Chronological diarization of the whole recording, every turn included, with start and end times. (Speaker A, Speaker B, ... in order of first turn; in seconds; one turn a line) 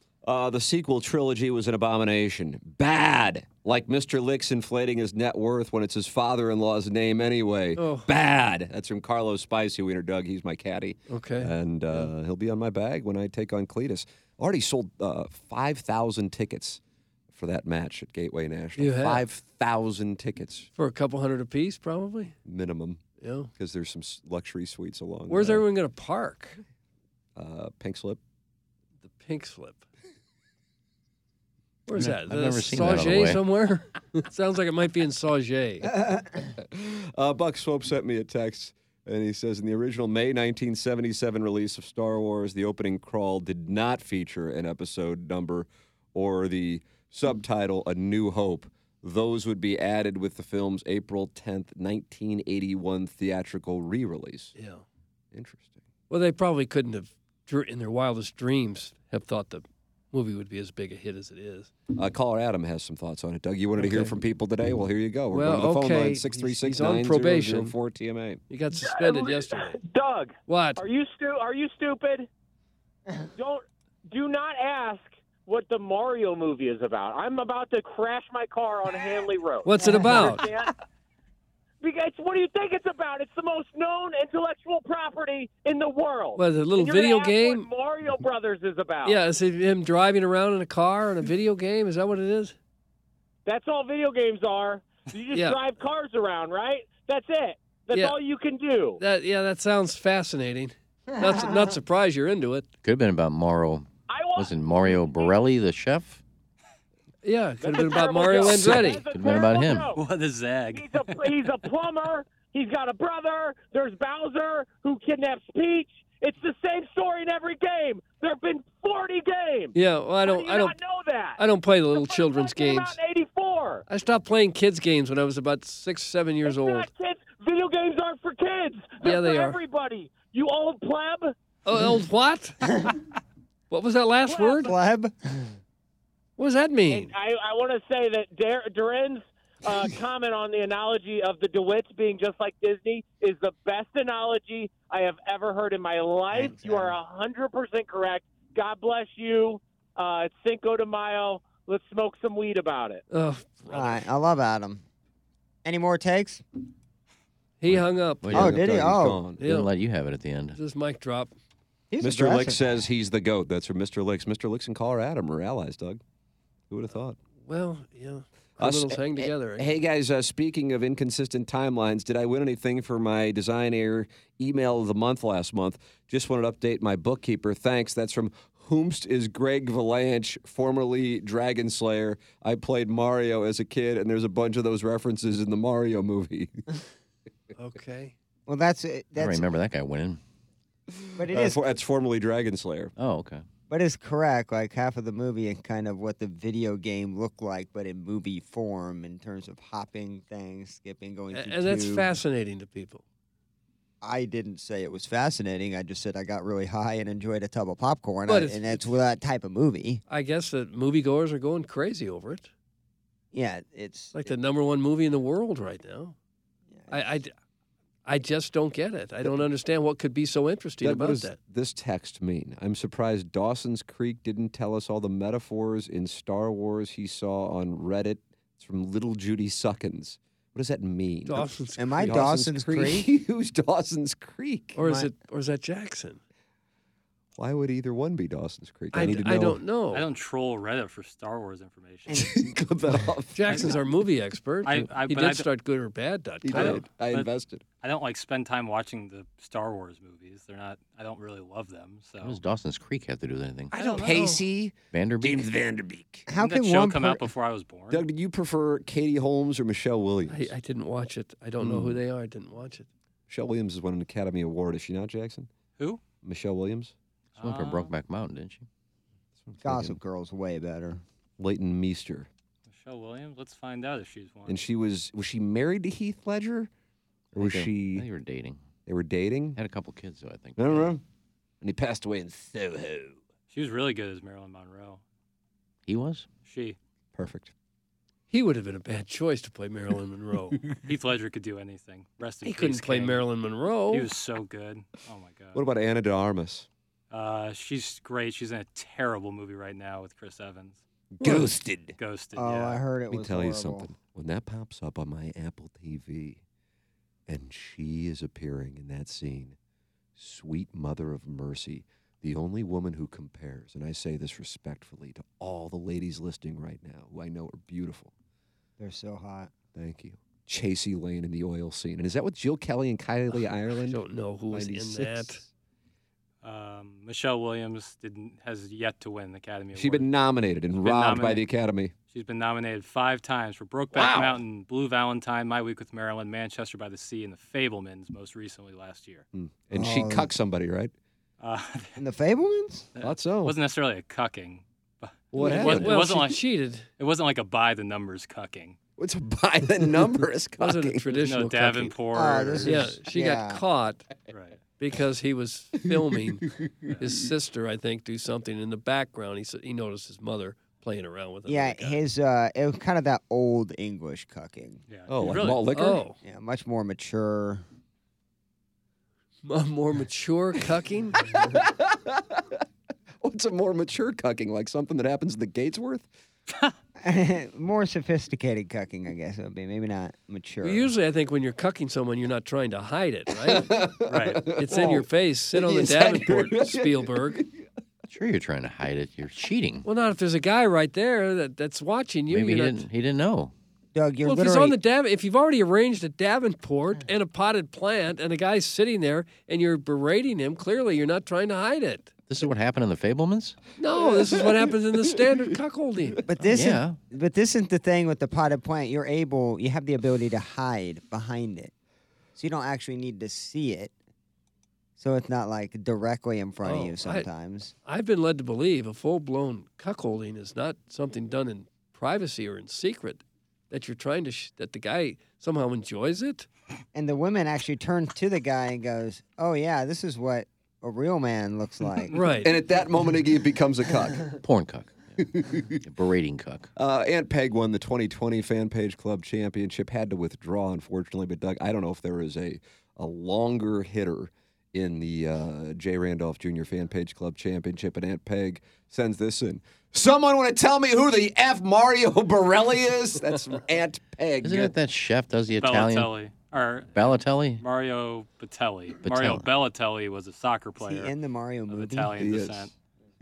Speaker A: 0.2-20.7
Speaker B: 7.8-8.1
Speaker B: 11.1-12.1
Speaker B: 18.8-19.2
Speaker B: 20.8-22.4
Speaker A: 22.4-23.0
Speaker B: 23.2-23.5
Speaker A: 23.6-25.6
Speaker B: 25.3-26.6
Speaker A: 27.4-28.2
Speaker B: 29.0-29.8
Speaker B: 31.9-35.9
Speaker C: 31.9-33.5
Speaker D: 35.9-36.5
Speaker A: 36.6-54.5
Speaker B: 54.5-54.8
Speaker A: 55.3-55.8
Speaker B: 56.1-61.7
Speaker A: 62.0-68.4
Speaker B: 63.8-64.1
Speaker B: 65.3-67.7
Speaker B: 68.5-69.8
Speaker E: 68.7-72.3
Speaker B: 70.5-70.8
Speaker E: 73.4-80.7
Speaker B: 79.6-80.4
Speaker D: 79.8-80.2
Speaker E: 81.8-89.2
Speaker B: 86.4-87.7
Speaker B: 89.0-92.5
Speaker E: 93.5-99.0
Speaker B: 95.3-95.6
Speaker B: 99.0-102.7
Speaker D: 101.2-101.5
Speaker C: 102.8-106.2
Speaker E: 104.1-105.3
Speaker B: 107.2-109.0
Speaker E: 107.6-110.0
Speaker C: 108.3-109.9
Speaker F: 110.0-111.1
Speaker E: 110.7-123.8
Speaker B: 119.7-120.8
Speaker B: 121.4-123.0
Speaker B: 123.9-126.9
Speaker E: 126.5-131.3
Speaker B: 129.0-129.6
Speaker B: 131.6-132.6
Speaker B: 133.7-134.7
Speaker E: 134.3-134.7
Speaker D: 134.6-135.5
Speaker B: 136.4-137.1
Speaker E: 136.9-153.0
Speaker D: 146.3-147.0
Speaker B: 153.1-154.1
Speaker D: 153.7-154.8
Speaker D: 155.6-156.4
Speaker B: 157.6-158.6
Speaker C: 157.7-158.6
Speaker A: 158.3-159.4
Speaker D: 158.3-159.2
Speaker C: 159.4-160.6
Speaker B: 159.4-159.7
Speaker B: 160.6-161.3
Speaker D: 161.9-162.6
Speaker A: 162.0-166.0
Speaker A: 166.7-167.2
Speaker B: 167.4-169.7
Speaker A: 168.6-186.6
Speaker B: 187.6-188.1
Speaker D: 188.5-189.5
Speaker C: 189.2-190.2
Speaker A: 190.9-192.9
Speaker D: 191.2-191.6
Speaker C: 193.0-193.4
Speaker D: 193.7-202.1
Speaker B: 201.3-203.0
Speaker D: 204.0-210.0
Speaker B: 208.3-208.9
Speaker B: 210.1-212.5
Speaker D: 213.3-214.2
Speaker B: 214.1-216.1
Speaker D: 216.8-217.1
Speaker B: 216.9-217.3
Speaker B: 218.1-221.4
Speaker A: 220.8-234.8
Speaker B: 231.3-232.3
Speaker D: 231.8-233.1
Speaker B: 234.8-236.2
Speaker D: 234.8-235.1
Speaker A: 237.4-239.6
Speaker B: 238.9-240.1
Speaker F: 239.9-242.2
Speaker D: 242.1-242.5
Speaker A: 242.1-243.8
Speaker B: 243.3-246.8
Speaker F: 243.5-243.8
Speaker F: 244.6-245.5
Speaker A: 246.4-247.6
Speaker F: 246.5-247.3
Speaker F: 247.8-252.4
Speaker C: 252.2-253.7
Speaker F: 253.7-254.2
Speaker B: 253.7-254.4
Speaker A: 254.0-256.3
Speaker C: 254.9-255.5
Speaker D: 256.3-257.3
Speaker F: 256.4-258.0
Speaker A: 257.9-260.5
Speaker B: 260.3-262.9
Speaker A: 261.6-262.0
Speaker A: 263.3-265.5
Speaker A: 266.2-266.9
Speaker F: 267.4-267.9
Speaker C: 267.4-268.7
Speaker A: 269.4-270.0
Speaker D: 269.6-271.0
Speaker A: 271.4-272.3
Speaker F: 272.7-274.6
Speaker A: 274.4-276.7
Speaker A: 277.3-278.1
Speaker C: 277.4-278.6
Speaker A: 278.9-279.6
Speaker C: 279.6-280.9
Speaker A: 280.6-281.0
Speaker A: 281.6-283.2
Speaker F: 283.5-285.0
Speaker C: 285.9-286.3
Speaker F: 286.4-286.8
Speaker A: 287.1-287.5
Speaker B: 288.3-290.6
Speaker F: 290.8-293.3
Speaker B: 292.4-294.1
Speaker F: 293.9-295.6
Speaker A: 295.5-296.7
Speaker F: 297.1-300.8
Speaker A: 301.2-301.9
Speaker B: 301.2-301.5
Speaker F: 302.0-302.8
Speaker D: 302.4-303.9
Speaker A: 303.1-306.4
Speaker A: 307.3-309.6
Speaker A: 310.2-318.1
Speaker D: 318.8-319.5
Speaker A: 319.7-325.5
Speaker B: 323.8-325.4
Speaker F: 326.4-330.1
Speaker A: 329.7-331.9
Speaker F: 330.8-331.4
Speaker F: 332.1-339.2
Speaker A: 333.9-334.4
Speaker A: 339.3-340.9
Speaker D: 339.7-340.3
Speaker F: 341.4-342.0
Speaker D: 342.0-342.9
Speaker F: 342.9-348.8
Speaker A: 343.0-343.6
Speaker A: 345.3-346.0
Speaker B: 345.4-346.9
Speaker A: 349.0-351.1
Speaker B: 350.6-351.9
Speaker F: 351.1-352.8
Speaker D: 352.1-353.6
Speaker B: 352.6-354.1
Speaker F: 354.3-354.6
Speaker B: 354.8-362.0
Speaker A: 355.9-357.1
Speaker D: 361.4-364.8
Speaker F: 364.9-365.6
Speaker A: 365.1-366.0
Speaker B: 365.7-366.2
Speaker D: 366.2-367.6
Speaker B: 369.4-371.2
Speaker A: 371.2-372.6
Speaker A: 373.2-376.1
Speaker D: 377.0-380.9
Speaker B: 380.6-383.7
Speaker A: 383.4-387.7
Speaker F: 384.1-384.4
Speaker B: 384.6-387.4
Speaker C: 388.1-389.8
Speaker B: 389.8-392.9
Speaker C: 392.3-393.5
Speaker D: 393.9-394.8
Speaker B: 394.2-402.1
Speaker C: 402.3-403.6
Speaker B: 403.8-406.2
Speaker A: 403.9-405.5
Speaker D: 406.3-411.7
Speaker C: 406.4-407.0
Speaker D: 412.4-413.9
Speaker D: 415.0-417.7
Speaker B: 416.6-417.3
Speaker B: 417.9-426.5
Speaker D: 426.9-432.3
Speaker B: 432.1-432.6
Speaker A: 432.4-434.3
Speaker C: 434.4-435.2
Speaker A: 435.2-435.8
Speaker C: 435.8-436.7
Speaker A: 436.8-454.7
Speaker C: 454.4-456.1
Speaker F: 455.6-461.1
Speaker C: 456.9-457.6
Speaker C: 459.0-459.4
Speaker D: 460.8-462.3
Speaker F: 461.7-462.7
Speaker A: 462.2-462.7